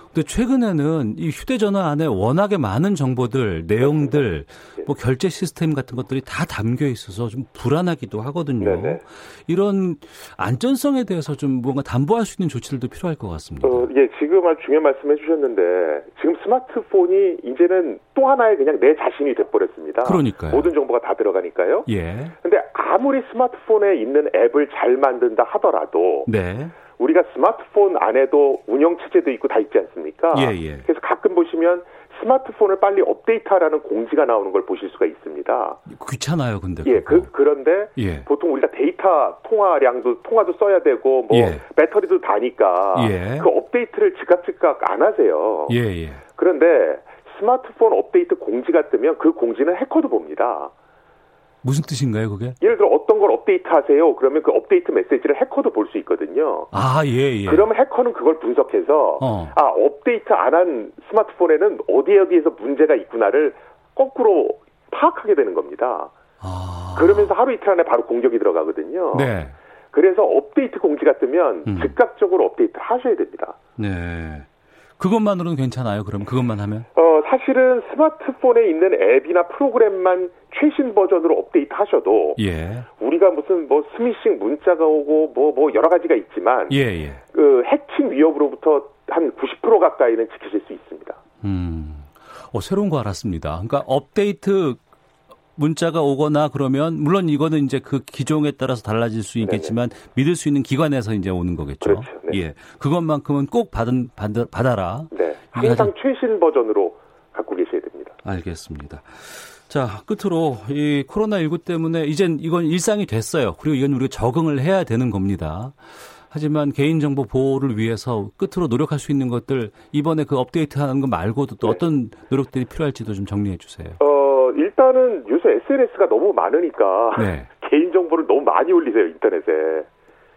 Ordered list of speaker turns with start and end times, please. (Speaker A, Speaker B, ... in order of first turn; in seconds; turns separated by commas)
Speaker A: 0.1-13.9, Speaker B: 8.6-9.0, Speaker B: 13.6-21.9, Speaker A: 20.0-20.7, Speaker A: 21.9-22.3, Speaker B: 22.4-26.3, Speaker A: 26.2-26.8, Speaker B: 26.9-35.8, Speaker A: 30.3-30.9, Speaker A: 35.9-37.3, Speaker B: 36.8-45.8, Speaker A: 38.0-38.3, Speaker A: 41.3-41.6, Speaker A: 42.9-43.5, Speaker A: 45.7-46.2, Speaker B: 46.4-50.7, Speaker A: 51.6-52.6, Speaker B: 52.6-56.7, Speaker A: 56.7-57.6, Speaker B: 57.5-66.1, Speaker A: 59.2-59.5, Speaker A: 66.4-67.3, Speaker B: 66.9-69.3, Speaker A: 69.1-69.5, Speaker B: 69.9-73.6, Speaker A: 71.7-72.0, Speaker A: 73.8-74.5, Speaker A: 75.0-76.9, Speaker B: 76.9-82.4, Speaker A: 82.4-82.9, Speaker B: 83.0-86.8, Speaker A: 86.7-87.2, Speaker B: 87.3-91.2, Speaker A: 91.4-94.8, Speaker A: 95.5-105.9, Speaker B: 99.4-99.7, Speaker B: 101.8-102.4, Speaker B: 105.1-108.2, Speaker A: 108.2-115.8, Speaker A: 116.3-124.0, Speaker B: 124.0-129.9, Speaker A: 127.1-127.5